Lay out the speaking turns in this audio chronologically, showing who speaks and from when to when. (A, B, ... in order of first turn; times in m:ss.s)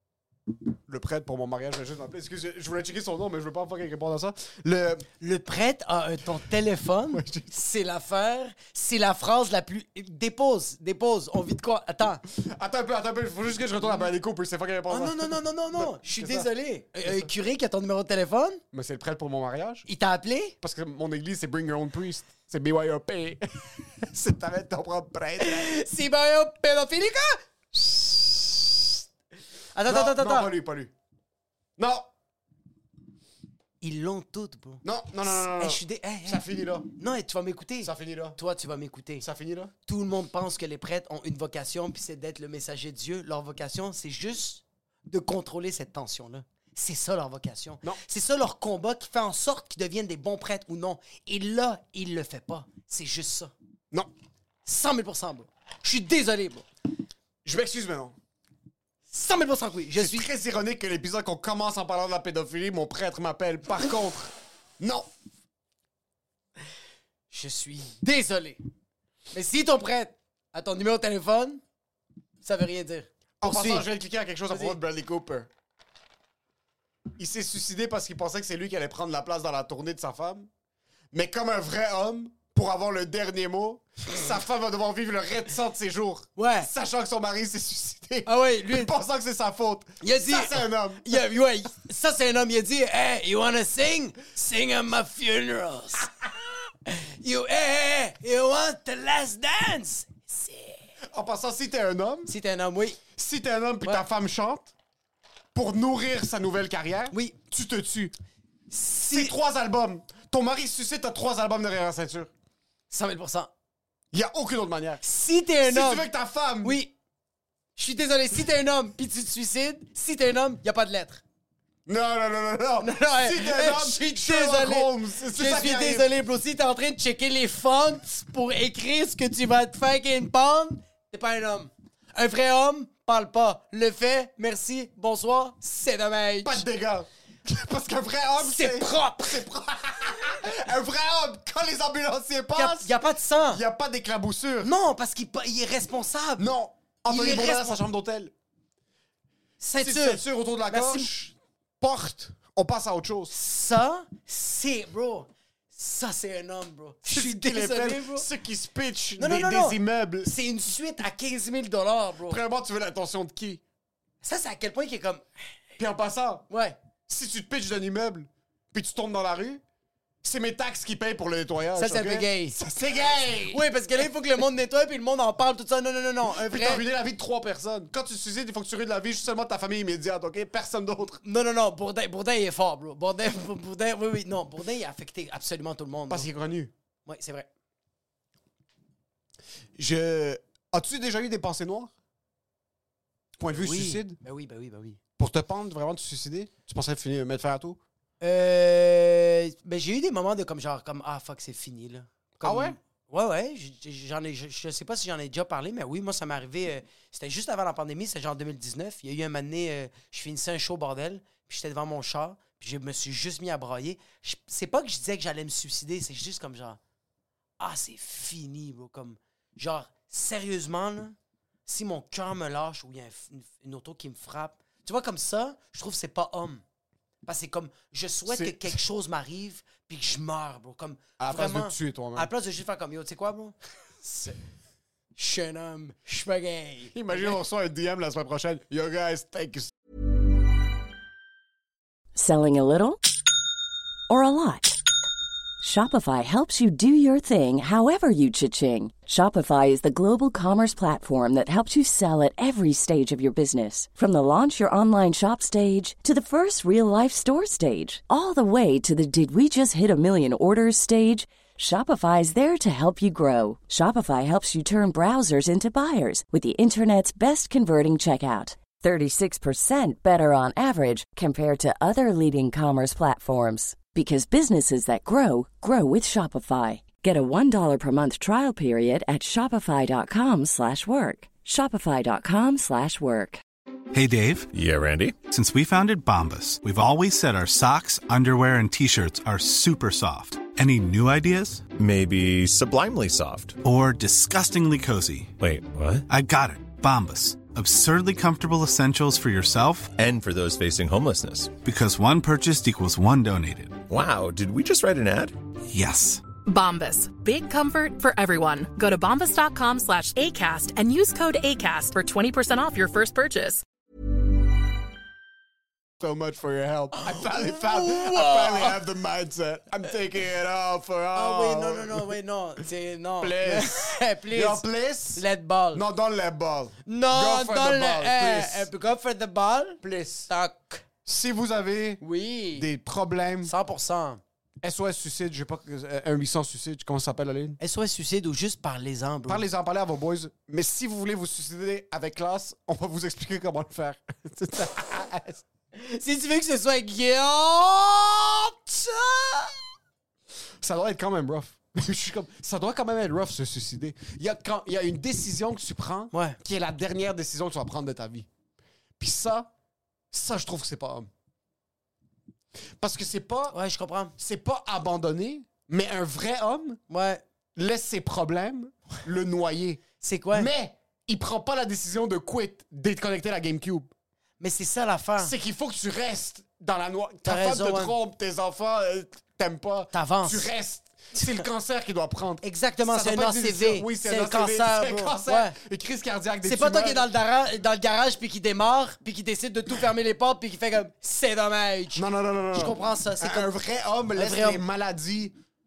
0:00.9-0:05.1 A
0:05.2-0:12.2 B
0:07.1-0:07.5 A
0:12.3-0:16.5 A
0:14.9-0:18.6 B
0:17.0-0:17.3 A
0:18.7-0:19.9 A
0:19.9-0:20.6 B
0:20.6-0:25.7 A
0:25.4-0:28.8 B
0:29.7-0:30.5 B
0:29.9-0:30.9 A
0:31.8-0:32.1 A
0:33.8-0:39.2 B
0:34.8-0:36.9 A
0:37.8-0:38.4 A
0:39.2-0:39.7 A
0:39.9-0:53.5 B
0:54.6-0:56.6 B
0:57.4-0:58.2 A
0:59.1-1:00.3 B
1:00.0-1:05.1 A
1:07.3-1:08.6 B
1:09.3-1:11.6 B
1:12.4-1:13.9 B
1:13.4-1:15.5 A
1:14.5-1:14.8 B
1:17.2-1:20.5 A
1:21.1-1:31.2 A
1:26.4-1:26.7 B
1:28.2-1:28.9 B
1:30.0-1:36.1 B
1:36.9-1:40.9 B
1:41.1-1:42.3 A
1:42.3-1:43.0 B
1:43.1-1:44.7 A
1:45.5-1:48.1 A
1:47.1-1:47.4 B
1:48.7-1:49.4 B
1:49.1-1:52.3 A
1:52.9-1:53.5 B
1:54.1-1:55.0 A
1:55.0-1:56.1 B
1:55.6-1:56.8 A
1:56.6-1:56.9 B
1:57.8-2:01.2 B
2:01.9-2:06.1 A
2:02.8-2:16.6 B
2:16.4-2:22.9 A
2:18.4-2:19.4 B
2:22.5-2:23.6 B
2:23.5-2:24.7 A
2:24.6-2:26.5 B
2:26.4-2:28.3 A
2:27.1-2:27.8 B
2:29.6-2:31.1 B
2:29.8-2:33.3 A
2:33.3-2:38.3 B
2:37.1-2:40.3 A
2:39.2-2:42.4 B
2:42.3-2:43.6 A
2:44.2-2:45.2 B
2:45.8-2:46.4 A
2:46.5-2:46.8 B
2:47.1-2:49.6 A
2:50.2-2:53.6 A
2:51.8-2:52.6 B
2:53.5-2:56.8 B
2:56.2-3:01.2 A
3:01.2-3:06.3 B
3:06.1-3:06.7 A
3:07.1-3:07.5 B
3:09.8-3:11.9 A
3:13.4-3:14.2 A
3:13.5-3:15.0 B
3:15.2-3:17.8 A
3:18.2-3:36.8 B
3:22.4-3:22.8 A
3:37.6-3:41.2 B
3:41.7-3:46.6 B
3:47.2-3:54.4 B
3:48.3-3:48.8 A
3:51.2-3:52.3 A
3:55.2-3:57.4 B
3:56.9-3:59.7 A
4:02.1-4:03.0 C
4:04.1-4:04.8 C
4:05.6-4:43.4 C
4:43.9-4:44.5 D
4:44.5-4:45.2 E
4:45.2-4:51.7 D
4:51.7-4:53.6 E
4:53.6-4:55.4 D
4:55.4-4:56.0 E
4:56.1-5:00.0 D
5:00.0-5:01.6 E
5:01.6-5:03.9 D
5:03.9-5:05.4 E
5:05.7-5:06.2 D
5:06.4-5:13.6 F
5:16.0-5:22.1 A
5:17.0-5:18.8 B
5:21.1-5:25.8 B
5:23.2-5:28.7 A
5:26.8-5:30.8 B
5:29.8-5:30.3 A
5:31.0-5:33.5 A
5:32.0-5:32.7 B
5:33.4-5:34.2 B
5:34.6-5:37.6 A
5:37.6-5:39.4 B
5:39.3-5:45.4 A
5:45.7-5:49.6 B
5:50.6-5:58.3 A
5:56.1-5:56.4 B
5:59.0-5:59.5 A
6:00.1-6:01.1 A
6:02.8-6:03.6 A
6:03.5-6:04.1 B
6:04.2-6:06.8 A
6:06.9-6:07.2 B
6:07.6-6:13.9 A
6:10.0-6:10.5 B
6:14.4-6:15.3 B
6:15.2-6:27.1 A
6:17.2-6:18.0 B
6:19.9-6:20.5 B
6:22.4-6:25.6 B
6:26.4-6:33.5 B
6:31.9-6:35.4 A
6:34.1-6:34.6 B